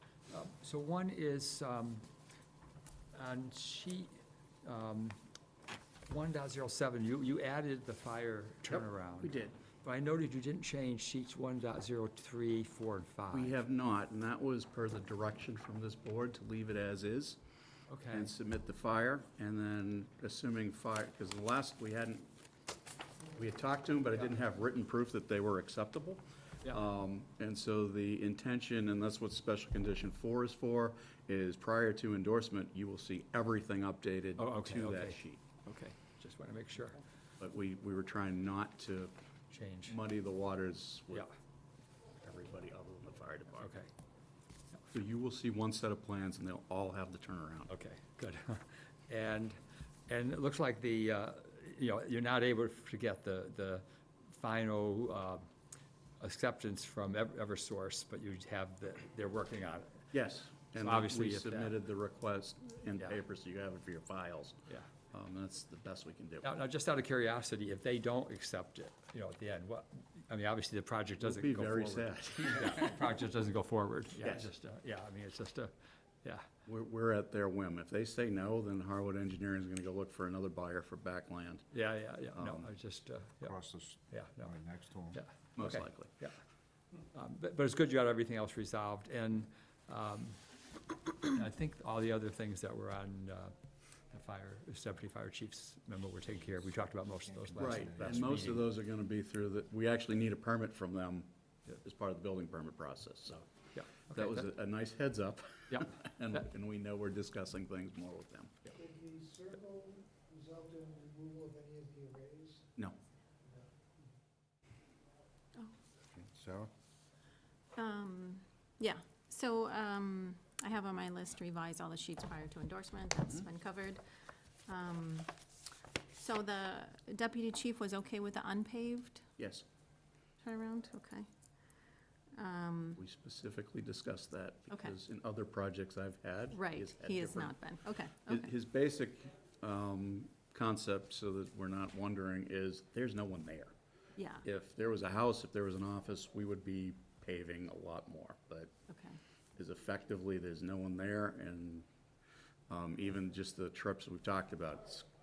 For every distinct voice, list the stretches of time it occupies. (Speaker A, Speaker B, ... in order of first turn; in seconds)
Speaker A: 0.3-2.0, 3.1-4.1, 4.6-5.2, 6.1-13.5, 17.9-18.3, 34.4-37.0, 39.5-40.0, 43.6-43.9, 47.7-49.6, 50.1-55.4, 56.2-60.0, 60.7-61.7, 66.4-75.7, 81.7-83.5, 84.1-84.5, 85.1-86.4, 87.1-90.4, 91.2-93.5, 94.1-98.7, 103.7-104.5, 105.7-106.4
Speaker B: 8.7-9.6, 13.3-17.4, 18.1-22.3, 23.3-35.4, 37.4-39.1, 39.9-41.3, 42.2-43.8, 44.9-47.7, 60.1-66.5, 71.2-72.8, 74.2-74.5, 76.7-81.7, 82.3-82.7, 85.5-86.1, 97.6-103.5, 104.1-108.6, 129.4-129.7, 132.9-137.6, 138.3-143.7, 144.4-148.7, 149.6-151.8, 152.7-155.1
Speaker C: 83.4-85.2, 97.1-98.4, 116.1-116.7
Speaker D: 108.8-112.7
Speaker E: 117.8-124.0, 124.7-125.3, 126.2-129.2, 130.4-131.3, 132.3-133.0, 136.5-138.5, 144.2-144.4, 148.9-149.2